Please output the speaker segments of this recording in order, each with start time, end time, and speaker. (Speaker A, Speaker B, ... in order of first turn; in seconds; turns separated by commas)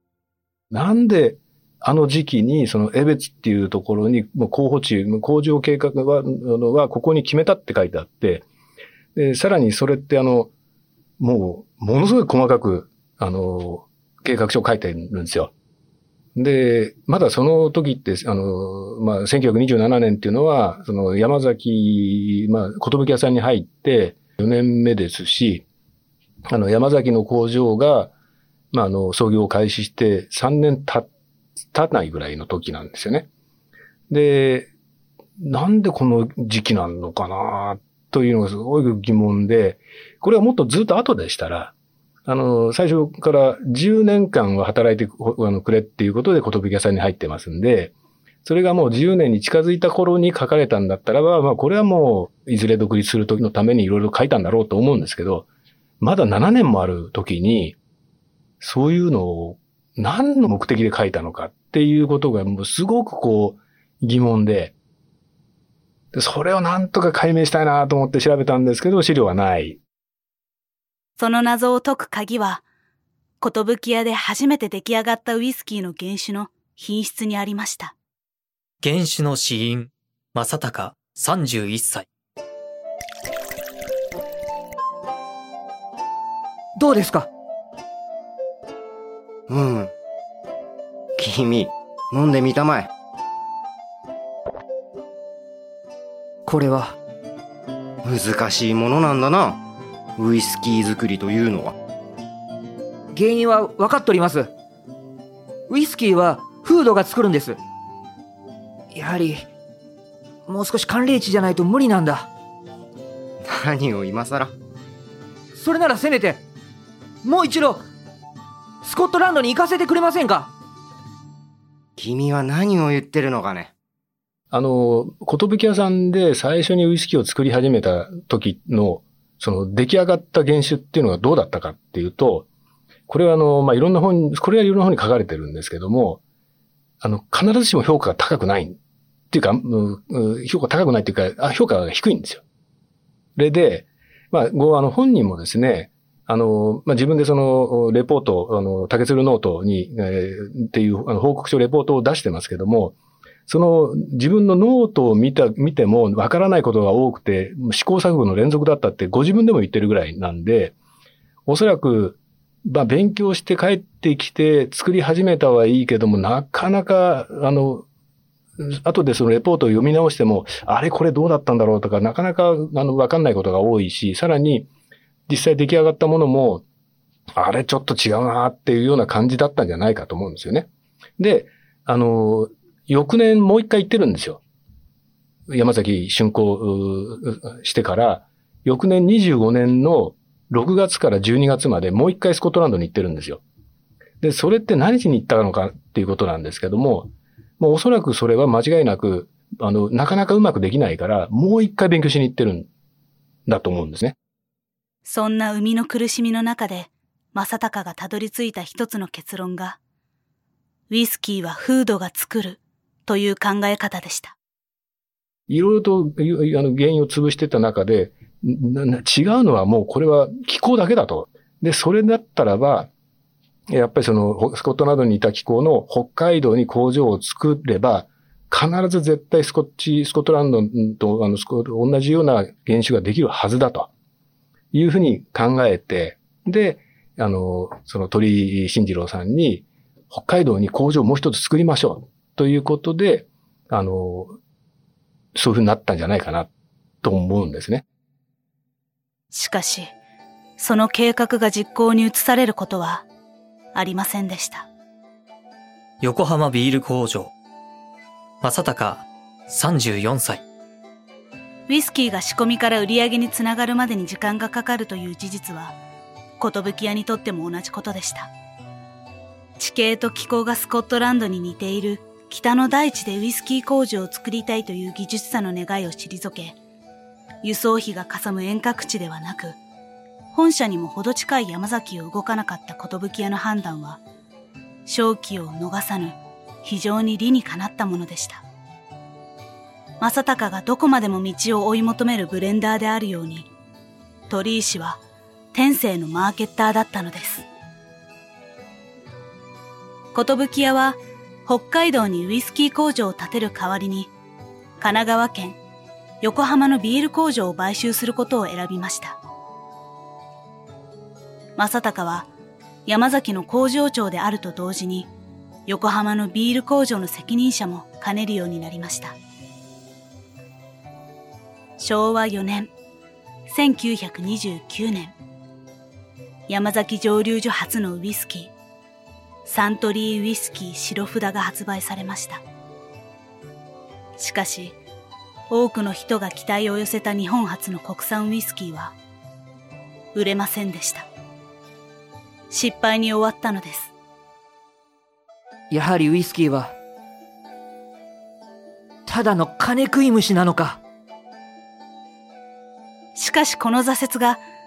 Speaker A: 0.7-8.4, Speaker A: 9.1-10.5, Speaker A: 11.2-15.5, Speaker A: 16.3-25.6, Speaker A: 26.4-28.1, Speaker A: 28.7-31.1, Speaker A: 31.7-33.3, Speaker A: 34.1-34.7, Speaker A: 35.4-41.7, Speaker A: 42.2-47.9, Speaker A: 48.4-55.5, Speaker A: 56.0-57.8, Speaker A: 58.6-64.7, Speaker A: 66.1-69.8, Speaker B: 71.2-72.6, Speaker B: 73.4-77.9, Speaker C: 78.8-82.0, Speaker D: 86.8-87.3, Speaker E: 89.5-89.9, Speaker E: 91.2-92.9, Speaker D: 96.5-97.0, Speaker E: 98.0-99.6, Speaker E: 100.2-101.8, Speaker D: 103.1-104.5, Speaker D: 105.7-107.6, Speaker D: 108.9-109.5, Speaker D: 110.5-112.3, Speaker E: 113.4-114.5, Speaker D: 115.5-116.4, Speaker D: 117.2-117.8, Speaker D: 118.8-120.5, Speaker E: 122.0-123.7, Speaker A: 124.5-132.4, Speaker A: 133.1-136.2, Speaker A: 137.0-138.8, Speaker A: 139.3-142.4, Speaker A: 143.4-152.9, Speaker A: 153.5-160.7, Speaker A: 161.5-167.8, Speaker A: 168.6-174.7, Speaker A: 175.3-176.6, Speaker A: 177.4-180.7, Speaker A: 181.2-184.4, Speaker A: 185.5-193.4, Speaker A: 194.2-202.7, Speaker A: 203.4-204.2, Speaker B: 205.0-209.8, Speaker B: 210.9-214.3, Speaker A: 215.5-222.9, Speaker A: 223.7-233.9, Speaker A: 234.7-244.4, Speaker A: 245.3-246.5, Speaker A: 247.0-247.8, Speaker B: 249.3-249.9, Speaker B: 250.6-253.1, Speaker B: 253.7-254.7, Speaker C: 256.0-257.3, Speaker C: 258.4-260.4, Speaker B: 261.7-265.8, Speaker B: 266.4-268.3, Speaker B: 269.6-276.6, Speaker B: 277.4-279.6, Speaker B: 280.3-284.0, Speaker B: 284.9-288.4, Speaker B: 290.0-293.5, Speaker B: 294.3-295.0, Speaker B: 295.5-297.5, Speaker B: 300.1-304.1, Speaker B: 304.8-305.6, Speaker B: 306.2-309.2, Speaker B: 311.6-312.3, Speaker B: 312.9-315.1, Speaker B: 315.7-319.1, Speaker B: 321.8-322.7, Speaker B: 323.5-325.1, Speaker B: 326.5-328.5, Speaker B: 329.4-332.4, Speaker B: 334.2-334.8, Speaker B: 335.5-338.9, Speaker B: 340.1-341.1, Speaker B: 342.5-343.9, Speaker D: 345.7-346.7, Speaker D: 349.1-350.8, Speaker B: 353.1-354.4